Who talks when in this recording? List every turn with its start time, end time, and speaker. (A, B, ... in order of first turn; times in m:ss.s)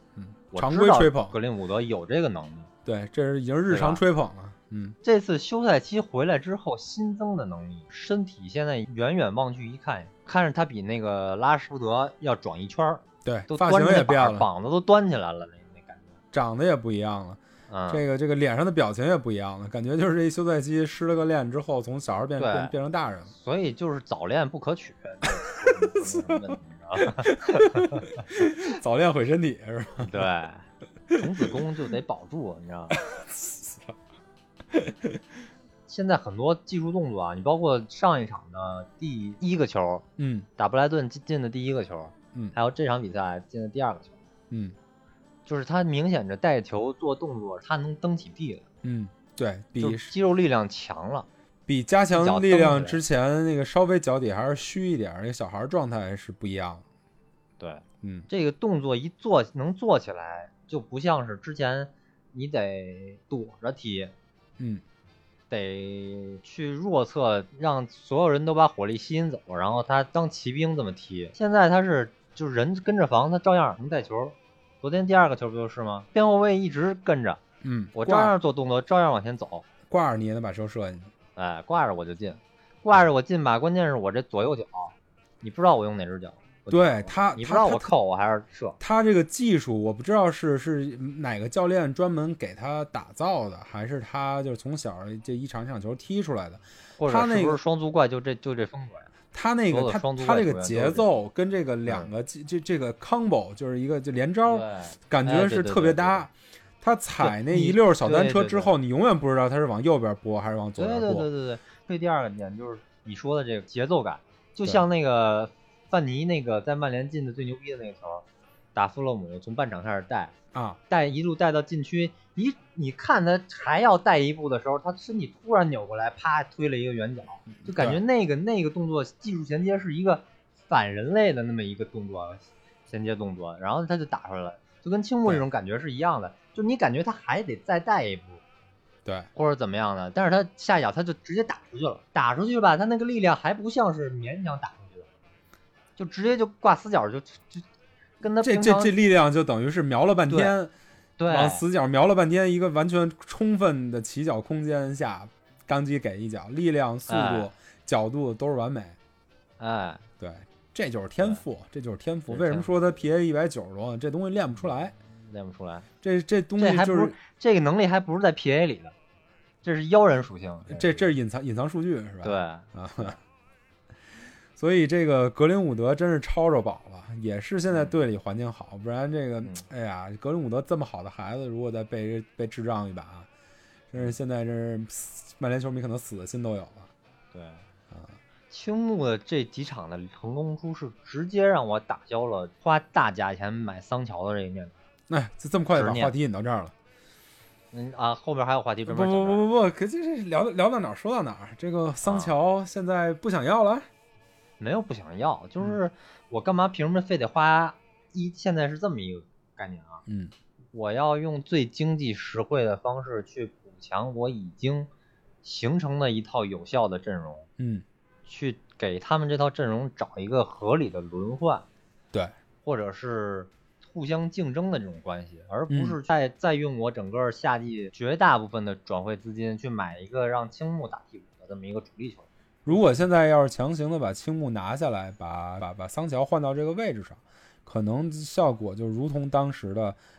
0:00.2-0:01.4 A
0:00.5-0:02.7 B
0:02.8-0:05.0 A
0:03.7-0:04.0 B
0:05.0-0:16.2 B
0:13.2-0:14.5 A
0:16.3-0:23.3 A
0:17.7-0:18.0 B
0:22.4-0:22.7 B
0:23.3-0:28.2 B
0:26.0-0:26.4 A
0:27.0-0:30.2 A
0:30.0-0:33.0 B
0:31.1-0:31.5 A
0:32.9-0:34.0 A
0:34.7-0:35.2 A
0:35.9-0:40.0 B
0:40.2-0:40.5 A
0:40.6-0:44.2 B
0:44.5-0:44.8 A
0:45.4-0:48.6 B
0:48.8-0:50.1 A
0:49.8-0:51.3 B
0:51.7-0:56.8 A
0:52.1-0:53.0 B
0:57.6-1:04.1 B
0:58.0-0:58.3 A
1:05.5-1:17.4 B
1:17.6-1:18.3 A
1:17.9-1:19.6 B
1:19.9-1:21.1 A
1:21.4-1:28.8 B
1:26.7-1:27.9 A
1:28.8-1:37.6 A
1:37.0-1:39.1 B
1:39.3-1:46.3 A
1:39.7-1:41.0 B
1:44.5-1:46.3 B
1:46.8-1:51.3 A
1:47.2-1:48.7 B
1:50.8-2:00.3 B
2:00.5-2:00.8 A
2:00.9-2:18.4 B
2:07.6-2:08.0 A
2:19.3-2:25.1 B
2:26.0-2:27.6 B
2:28.2-2:28.9 B
2:28.4-2:30.7 A
2:30.3-2:30.5 B
2:31.2-2:31.6 B
2:31.3-2:39.0 A
2:37.1-2:37.5 B
2:39.6-2:40.0 B
2:40.2-2:45.0 A
2:42.3-2:42.7 B
2:45.1-2:45.9 B
2:46.0-2:47.2 A
2:46.6-2:48.9 B
2:49.6-2:51.1 B
2:50.7-2:53.2 A
2:52.2-2:53.2 B
2:54.6-3:03.3 A
2:57.7-2:58.0 B
3:03.9-3:06.9 A
3:07.3-3:07.6 B
3:07.9-3:08.2 A
3:08.5-3:14.7 B
3:15.1-3:16.7 A
3:15.7-3:16.1 B
3:17.7-3:19.4 B
3:18.9-3:23.9 A
3:22.0-3:22.3 B
3:24.6-3:30.0 B
3:30.1-3:30.3 A
3:30.7-3:34.9 B
3:35.4-3:37.5 B
3:37.6-3:37.8 A
3:38.2-3:41.6 B
3:42.6-3:53.0 B
3:45.7-3:46.0 A
3:52.6-4:00.0 A